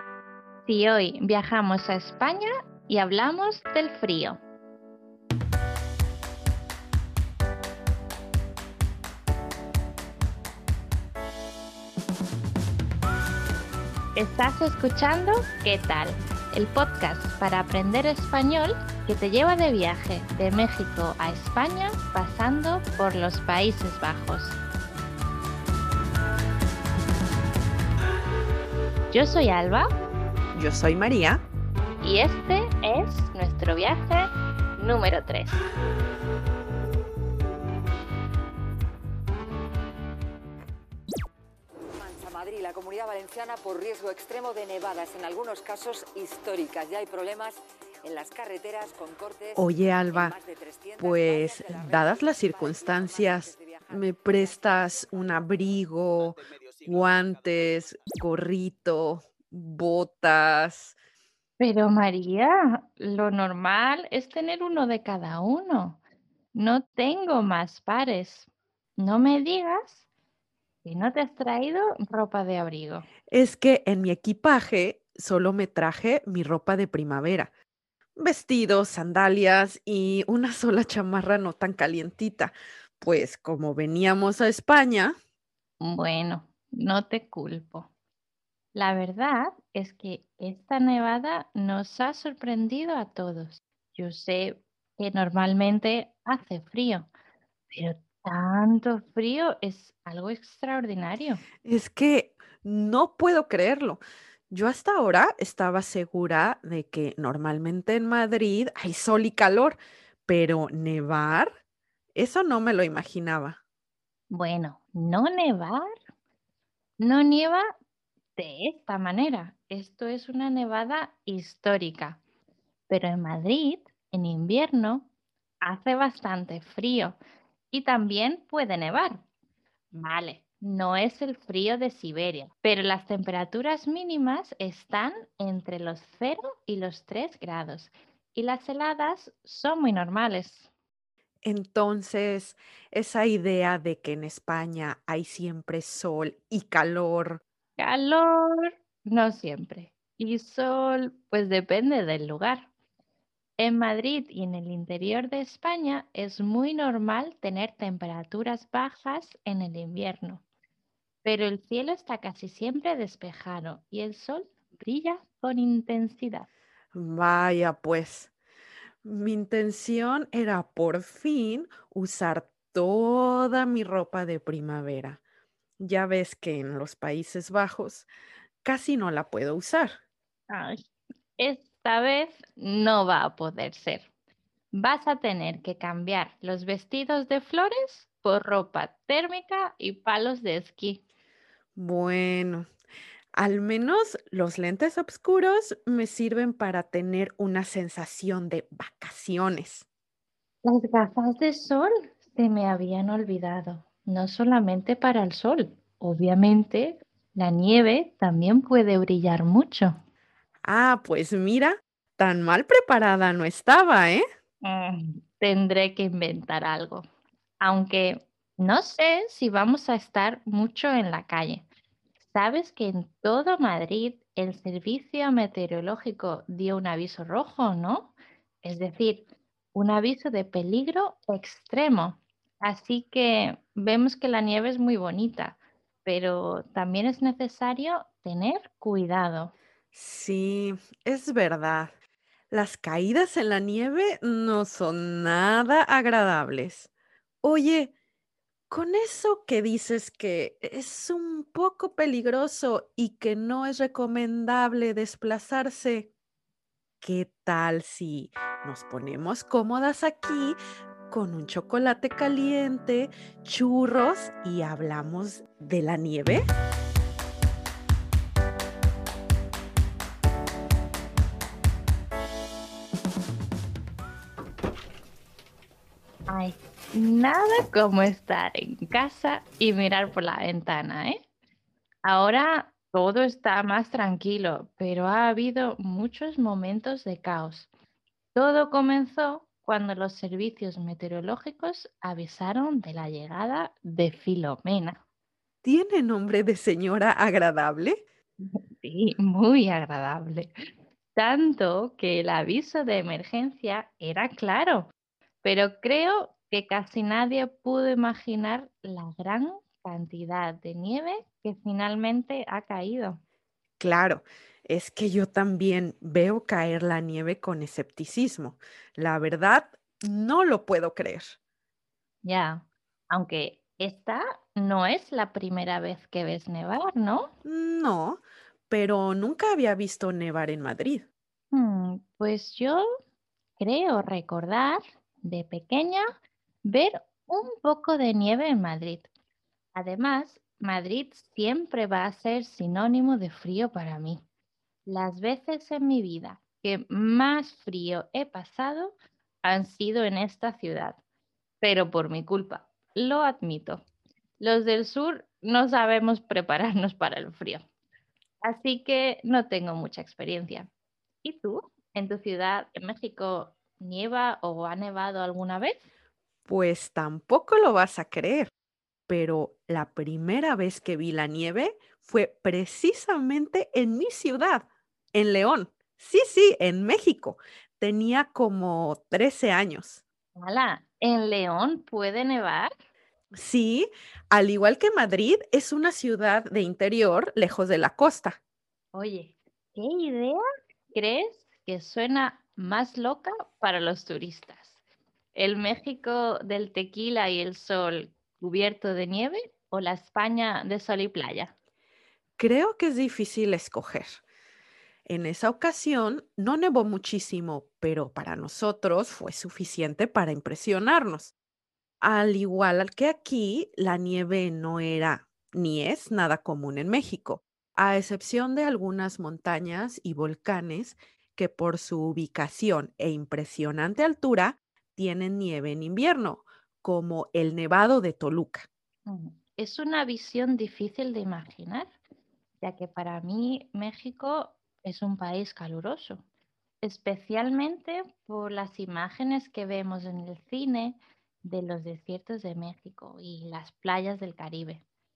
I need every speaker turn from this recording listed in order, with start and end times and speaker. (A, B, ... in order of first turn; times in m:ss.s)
0:00.6-0:04.4 A
0:14.2-0:24.6 A
0:29.1-0:29.9 A
0:30.6-0:31.4 B
0:32.0-0:35.6 A
0:41.9-0:55.0 C
0:49.6-0:50.4 B
0:51.0-1:01.0 B
1:01.6-1:06.0 A
1:06.6-1:10.0 A
1:10.8-1:13.1 A
1:13.3-1:17.5 B
1:18.2-1:25.2 B
1:25.8-1:27.9 A
1:28.8-1:37.1 A
1:37.7-1:41.4 A
1:41.6-1:51.5 B
1:52.2-1:53.6 B
1:54.3-1:55.8 A
1:57.0-1:57.7 A
1:58.4-2:02.2 A
2:02.9-2:05.1 A
2:05.6-2:07.2 A
2:07.7-2:09.2 A
2:09.9-2:20.7 A
2:21.4-2:27.4 B
2:27.8-2:32.7 A
2:33.6-2:40.4 A
2:41.2-2:46.5 A
2:46.9-2:48.3 B
2:49.0-2:55.2 B
2:55.8-2:58.1 B
2:58.6-3:00.0 B
3:00.5-3:00.8 A
3:01.4-3:04.1 A
3:04.7-3:11.0 A
3:11.8-3:12.7 B
3:13.4-3:19.9 B
3:20.6-3:30.0 A
3:30.6-3:34.2 B
3:34.6-3:37.1 A
3:37.6-3:41.7 A
3:42.3-3:59.5 A
3:59.9-4:01.9 B
4:02.5-4:06.9 B
4:07.4-4:07.9 B
4:08.7-4:16.1 B
4:17.0-4:20.6 B
4:21.1-4:26.4 B
4:36.3-4:41.2 A
4:42.1-4:47.7 A
4:48.4-4:55.0 A
4:55.6-4:58.0 B
4:58.4-5:00.5 A
5:01.2-5:04.9 A
5:05.4-5:13.2 A
5:13.8-5:21.4 B
5:22.2-5:27.3 A
5:27.4-5:31.1 B
5:31.5-5:32.8 A
5:33.6-5:36.0 A
5:36.7-5:39.1 A
5:39.8-5:44.2 A
5:44.9-5:51.0 A
5:51.6-5:53.8 A
5:54.4-5:57.6 A
5:58.4-6:00.7 A
6:01.2-6:05.8 A
6:06.5-6:08.5 B
6:09.1-6:20.0 B
6:20.4-6:22.7 A
6:23.4-6:28.4 B
6:28.9-6:30.4 A
6:30.9-6:34.8 A
6:35.4-6:41.5 A
6:42.4-6:44.2 B
6:45.1-6:51.3 B
6:52.0-7:08.7 B
7:09.1-7:11.9 A
7:12.6-7:16.2 A
7:16.8-7:24.8 A